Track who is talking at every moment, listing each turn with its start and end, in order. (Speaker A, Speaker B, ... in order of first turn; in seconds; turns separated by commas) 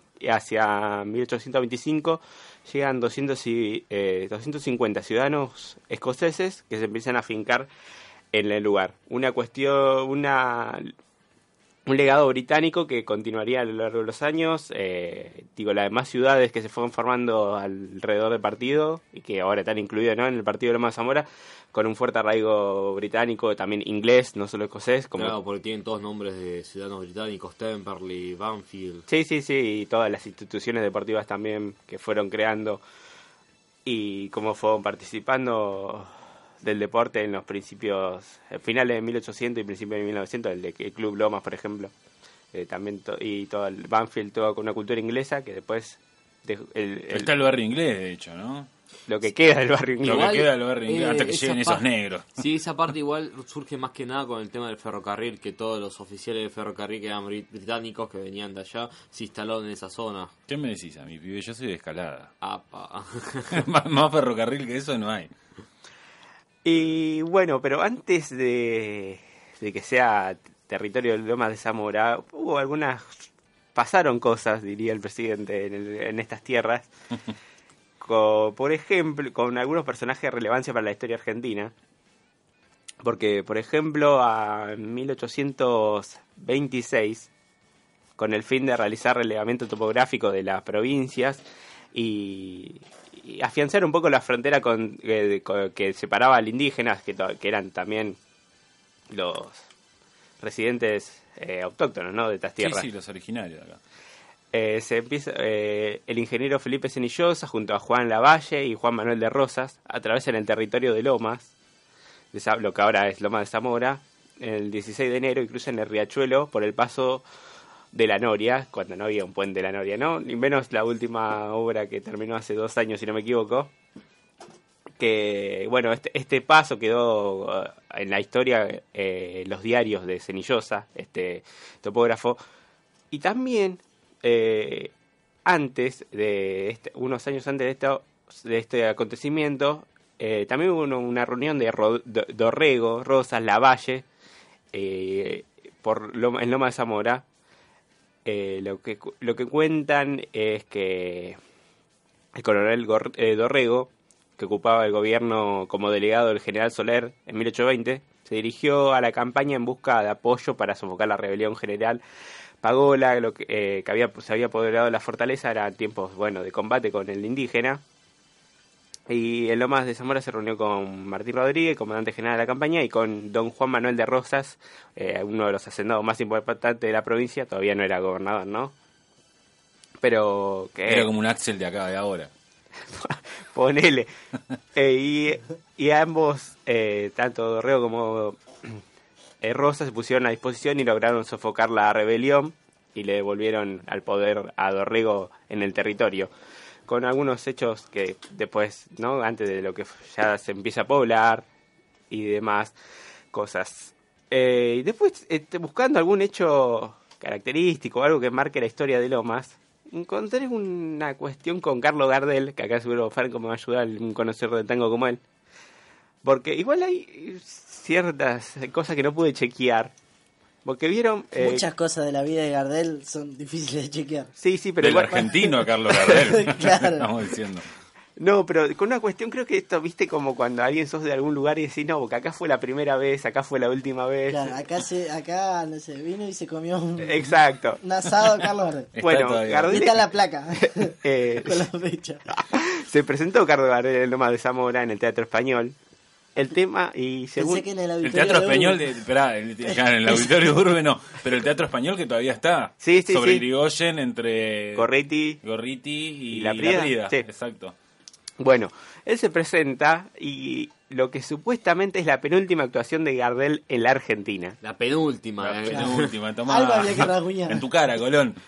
Speaker A: 0.2-7.7, Speaker A: 8.3-10.9, Speaker A: 11.8-25.4, Speaker B: 25.1-29.0, Speaker A: 29.1-32.8, Speaker A: 33.8-41.9, Speaker A: 42.5-47.3, Speaker C: 47.1-48.7, Speaker A: 49.1-50.4, Speaker B: 50.0-51.8, Speaker C: 50.0-52.3, Speaker B: 52.4-60.3, Speaker C: 60.5-62.3, Speaker B: 62.4-63.6, Speaker C: 63.5-65.3, Speaker A: 66.6-73.2, Speaker A: 73.7-76.9, Speaker A: 78.0-81.7, Speaker A: 83.0-87.3, Speaker A: 88.2-98.2, Speaker A: 99.1-99.6, Speaker A: 100.4-102.9, Speaker C: 102.6-103.8, Speaker A: 104.5-111.5, Speaker A: 112.3-117.2, Speaker A: 117.9-123.7, Speaker A: 125.0-132.4, Speaker A: 133.1-134.9, Speaker A: 135.4-144.1, Speaker A: 144.7-147.2, Speaker A: 148.2-151.4, Speaker A: 152.3-162.0, Speaker A: 162.6-167.8, Speaker A: 169.1-178.7, Speaker A: 180.0-181.1, Speaker C: 180.9-182.3, Speaker A: 182.9-184.1, Speaker A: 184.7-188.8, Speaker A: 189.4-196.3, Speaker A: 196.9-201.4, Speaker A: 202.1-202.7, Speaker A: 203.3-215.2, Speaker A: 216.2-219.9, Speaker A: 220.6-221.6, Speaker D: 221.4-224.3, Speaker A: 224.4-225.4, Speaker C: 224.8-227.7, Speaker D: 225.1-227.2, Speaker A: 228.2-234.6, Speaker D: 234.3-238.9, Speaker A: 237.0-237.8, Speaker C: 238.9-239.8, Speaker A: 239.0-239.9, Speaker D: 239.7-242.2, Speaker A: 241.0-241.7, Speaker A: 242.3-245.8, Speaker A: 246.3-247.6, Speaker D: 247.3-248.9, Speaker C: 248.0-254.9, Speaker D: 249.6-250.4, Speaker A: 252.8-253.4, Speaker A: 254.7-255.4, Speaker C: 255.4-257.7, Speaker A: 256.3-257.2, Speaker A: 258.4-264.6, Speaker B: 264.6-266.1, Speaker C: 265.4-268.4, Speaker D: 265.7-267.7